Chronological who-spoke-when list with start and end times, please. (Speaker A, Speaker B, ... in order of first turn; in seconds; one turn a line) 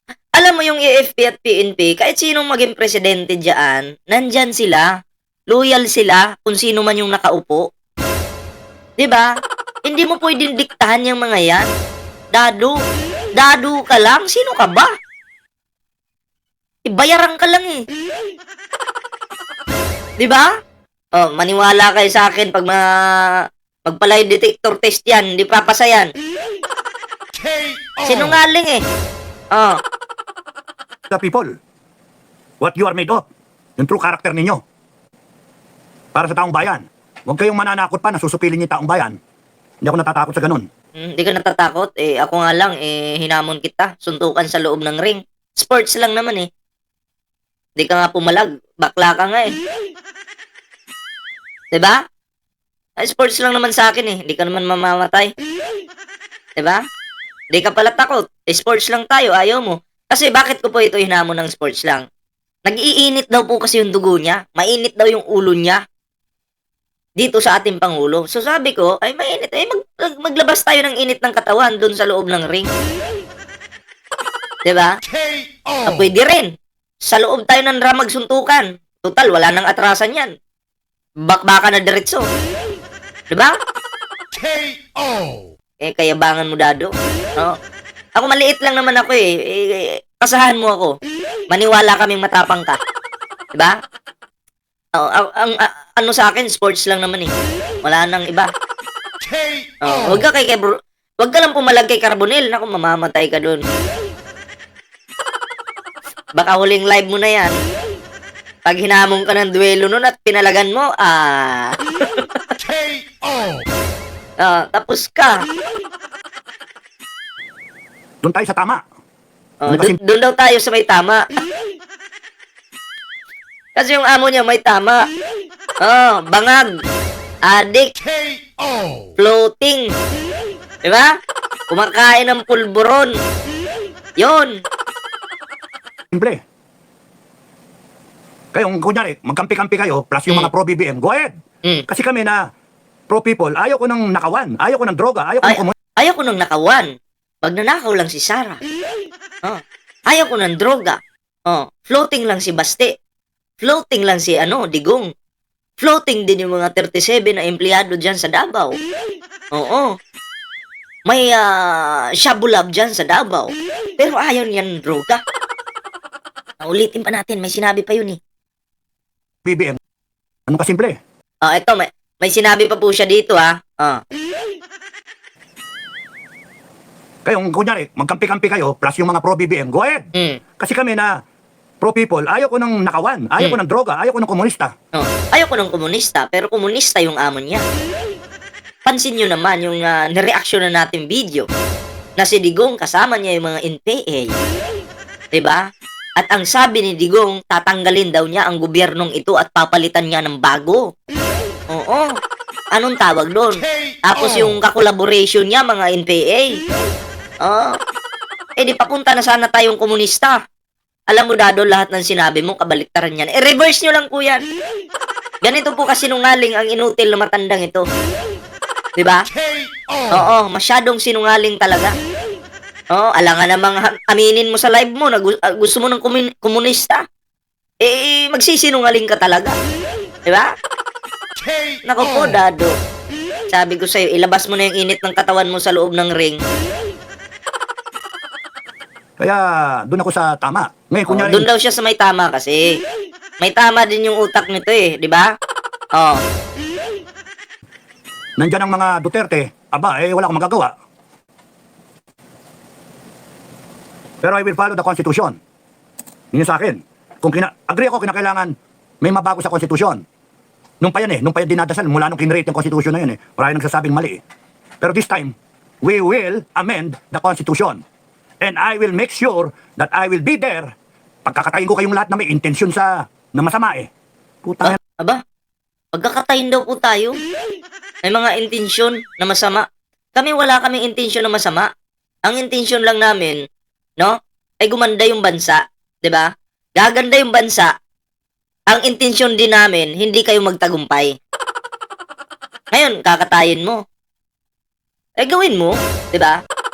Speaker A: 0.3-4.9
Speaker A: 5.5-7.7
Speaker A: 9.0-9.3
Speaker A: 9.8-11.7
Speaker A: 12.3-12.8
Speaker A: 13.3-14.9
Speaker A: 16.8-17.8
Speaker A: 20.2-20.5
Speaker A: 21.1-26.1
Speaker A: 28.0-28.8
Speaker B: 31.1-31.5
Speaker B: 32.6-33.2
Speaker B: 33.8-34.6
Speaker B: 36.1-39.1
Speaker B: 39.8-40.6
Speaker A: 41.0-46.5
Speaker A: 47.8-49.5
Speaker A: 51.7-52.0
Speaker A: 53.0-55.3
Speaker A: 56.6-56.8
Speaker A: 57.5-62.0
Speaker A: 62.6-65.8
Speaker A: 67.2-72.7
Speaker A: 74.6-74.9
Speaker A: 75.8-76.5
Speaker A: 77.0-80.3
Speaker A: 81.2-82.2
Speaker A: 83.3-83.5
Speaker A: 85.8-87.5
Speaker A: 88.2-90.9
Speaker A: 91.5-92.8
Speaker A: 95.0-97.3
Speaker A: 97.8-98.5
Speaker A: 99.8-103.6
Speaker A: 106.4-107.5
Speaker A: 108.7-112.3
Speaker A: 114.4-115.4
Speaker B: 118.2-118.8
Speaker A: 119.6-121.2
Speaker B: 119.7-120.0
Speaker A: 123.8-125.0
Speaker A: 125.8-126.7
Speaker A: 127.5-127.9
Speaker A: 129.2-129.9
Speaker A: 130.8-131.1
Speaker A: 131.7-133.2
Speaker A: 134.2-134.6
Speaker B: 136.1-136.4
Speaker B: 138.5-141.3
Speaker B: 141.9-142.4
Speaker B: 143.1-145.7
Speaker A: 145.4-146.9
Speaker A: 147.4-148.6
Speaker A: 149.4-152.9
Speaker A: 153.6-155.1
Speaker A: 155.8-158.8
Speaker A: 159.5-159.9
Speaker A: 161.1-165.2
Speaker A: 166.6-168.2
Speaker B: 169.4-169.8
Speaker B: 170.5-171.0
Speaker A: 171.4-174.0
Speaker B: 177.2-180.1
Speaker A: 180.1-180.4
Speaker B: 180.6-181.1
Speaker B: 181.8-184.7
Speaker A: 184.9-187.6
Speaker A: 188.8-191.5
Speaker A: 192.2-194.3
Speaker A: 195.3-195.6
Speaker A: 196.2-200.8
Speaker A: 201.7-202.1
Speaker A: 202.7-206.6
Speaker A: 207.4-207.8
Speaker A: 208.6-210.4
Speaker A: 211.1-214.4
Speaker A: 215.4-217.9
Speaker A: 218.9-219.2
Speaker A: 220.1-221.9
Speaker A: 222.9-227.0
Speaker A: 227.8-229.5
Speaker A: 230.2-230.5
Speaker A: 231.8-232.7
Speaker A: 233.5-236.4
Speaker B: 239.2-241.5
Speaker A: 241.1-242.8
Speaker A: 243.4-245.3
Speaker B: 248.4-250.7
Speaker B: 254.2-255.3
Speaker B: 256.3-260.0
Speaker B: 260.8-264.2
Speaker B: 264.8-267.8
Speaker B: 268.4-270.7
Speaker B: 271.2-273.9
Speaker B: 274.4-274.8
Speaker A: 274.6-275.2
Speaker A: 275.9-277.2
Speaker A: 278.0-279.6
Speaker A: 280.1-281.7
Speaker A: 282.2-283.4
Speaker A: 284.0-287.7
Speaker A: 288.7-291.2
Speaker A: 292.7-293.8
Speaker A: 295.2-296.4